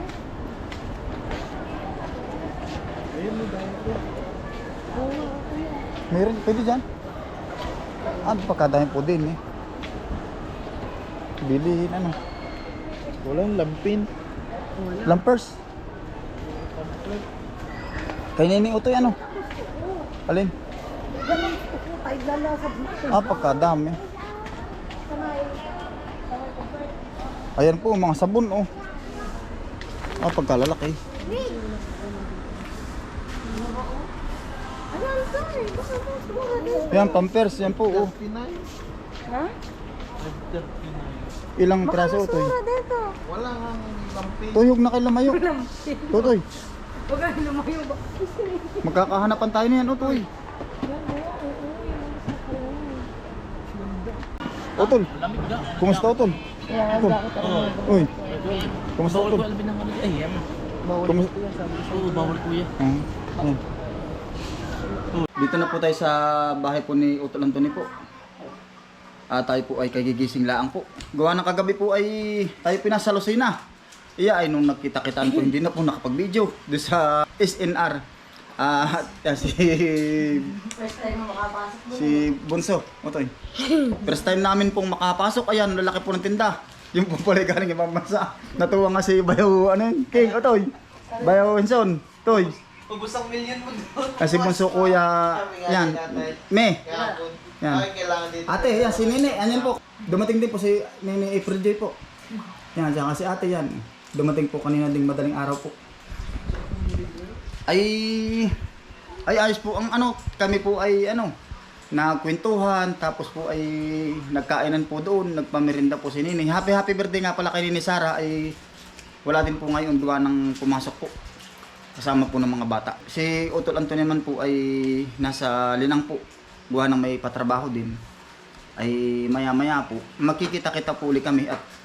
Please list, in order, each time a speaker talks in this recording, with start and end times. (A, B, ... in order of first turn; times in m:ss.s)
0:03.1-0:04.0 A
0:05.0-0:05.8 B
0:06.1-0:06.8 C
0:08.2-0:09.4 C
0:11.4-0:12.2 C
0:13.2-0:14.1 A
0:15.0-0:15.6 C
0:18.4-0:19.2 C
0:19.5-0:20.0 B
0:20.3-0:20.5 C
0:21.1-0:23.4 B
0:23.1-0:24.0 C
0:25.1-0:25.7 B
0:26.4-0:26.8 B
0:27.6-0:28.7 C
0:30.2-0:31.0 C
0:31.2-0:31.7 B
0:33.5-0:34.0 B
0:34.9-0:37.2 B
0:36.9-0:38.1 C
0:37.6-0:38.7 A
0:39.3-0:39.5 B
0:40.2-0:41.2 D
0:41.6-0:42.5 C
0:41.8-0:43.1 B
0:43.2-0:44.6 A
0:44.5-0:45.4 C
0:45.3-0:46.4 B
0:46.1-0:46.4 C
0:47.1-0:48.8 B
0:48.8-0:50.3 C
0:50.9-0:53.1 B
0:54.8-0:55.1 C
0:55.3-0:55.7 D
0:55.7-0:58.1 C
0:56.7-0:58.7 B
0:57.4-0:57.8 D
0:58.4-0:58.7 D
0:59.0-0:59.5 C
0:59.3-1:00.4 D
1:01.0-1:01.3 C
1:01.4-1:02.7 D
1:02.8-1:03.6 C
1:05.3-1:07.9 C
1:09.3-1:13.6 C
1:14.2-1:18.0 C
1:18.6-1:20.6 C
1:20.6-1:22.2 B
1:21.9-1:23.3 C
1:24.0-1:32.6 C
1:32.9-1:39.7 A
1:34.2-1:36.9 C
1:37.6-1:37.9 C
1:38.5-1:41.9 C
1:42.8-1:45.8 C
1:47.7-1:48.6 C
1:49.2-1:51.3 C
1:51.9-1:58.6 C
1:59.2-2:01.1 C
2:02.0-2:08.0 C
2:08.8-2:11.6 C